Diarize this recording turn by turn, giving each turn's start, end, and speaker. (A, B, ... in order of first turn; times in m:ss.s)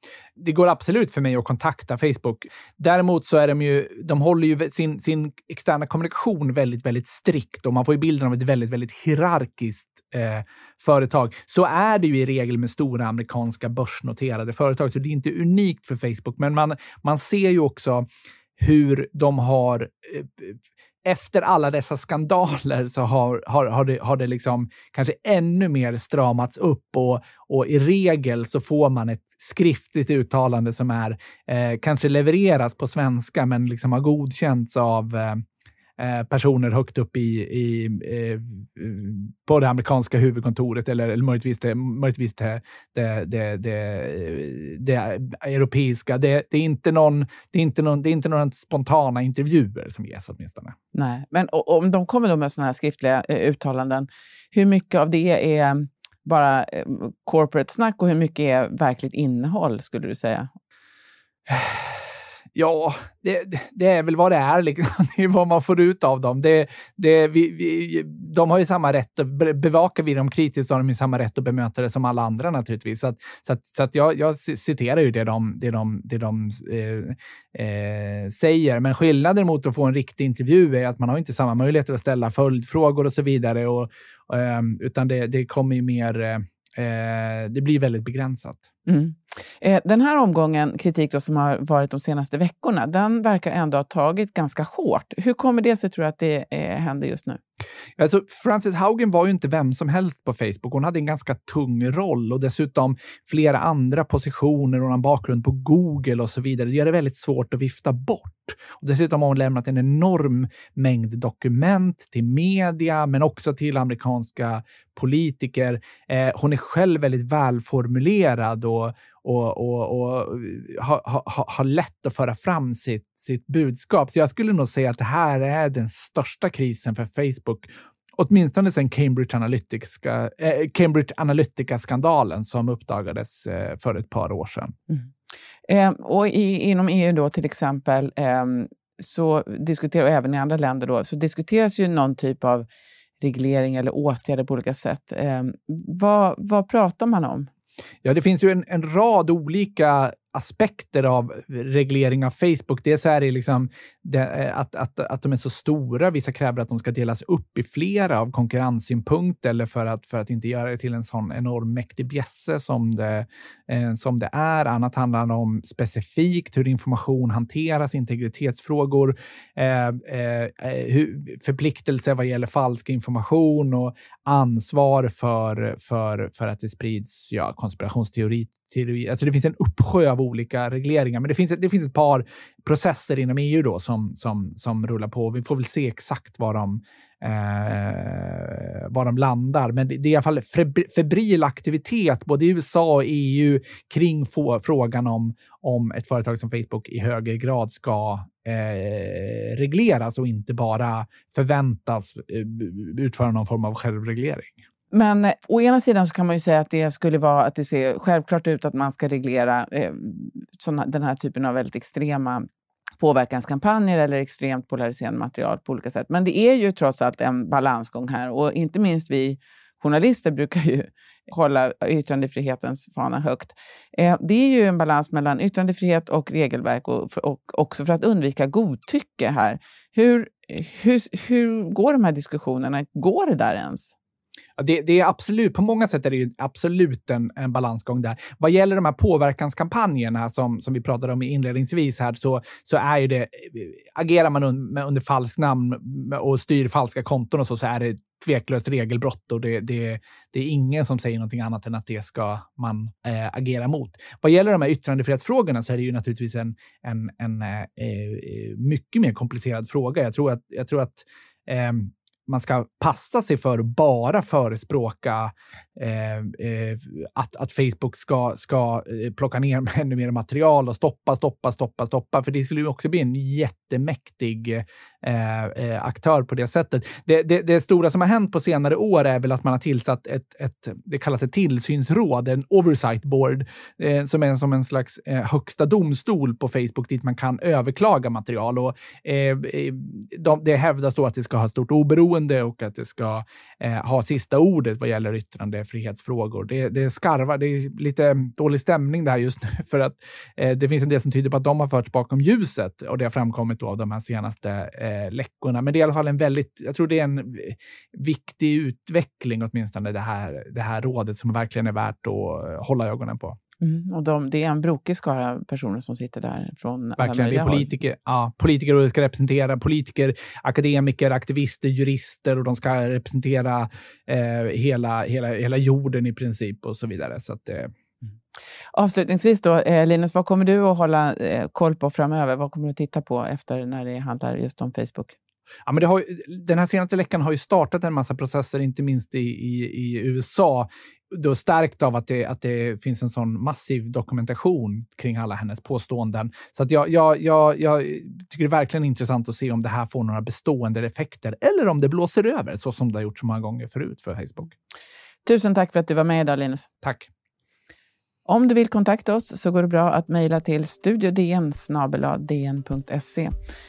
0:00.4-0:35.4 A
0:36.0-0:50.7 A
0:50.9-1:00.5 B
1:01.5-1:02.0 A
1:02.5-1:28.7 A
1:28.8-1:37.4 B
1:38.0-2:14.7 A
2:15.7-2:22.7 B
2:23.2-2:27.5 B
2:28.0-3:24.6 A
3:24.9-3:32.4 B
3:33.0-3:53.9 B
3:54.6-5:13.4 A
5:13.6-5:17.7 B
5:17.0-5:27.7 A
5:28.7-5:35.1 B
5:35.7-5:54.5 A
5:55.2-5:56.7 B
5:56.8-5:57.1 A
5:58.2-6:03.3 B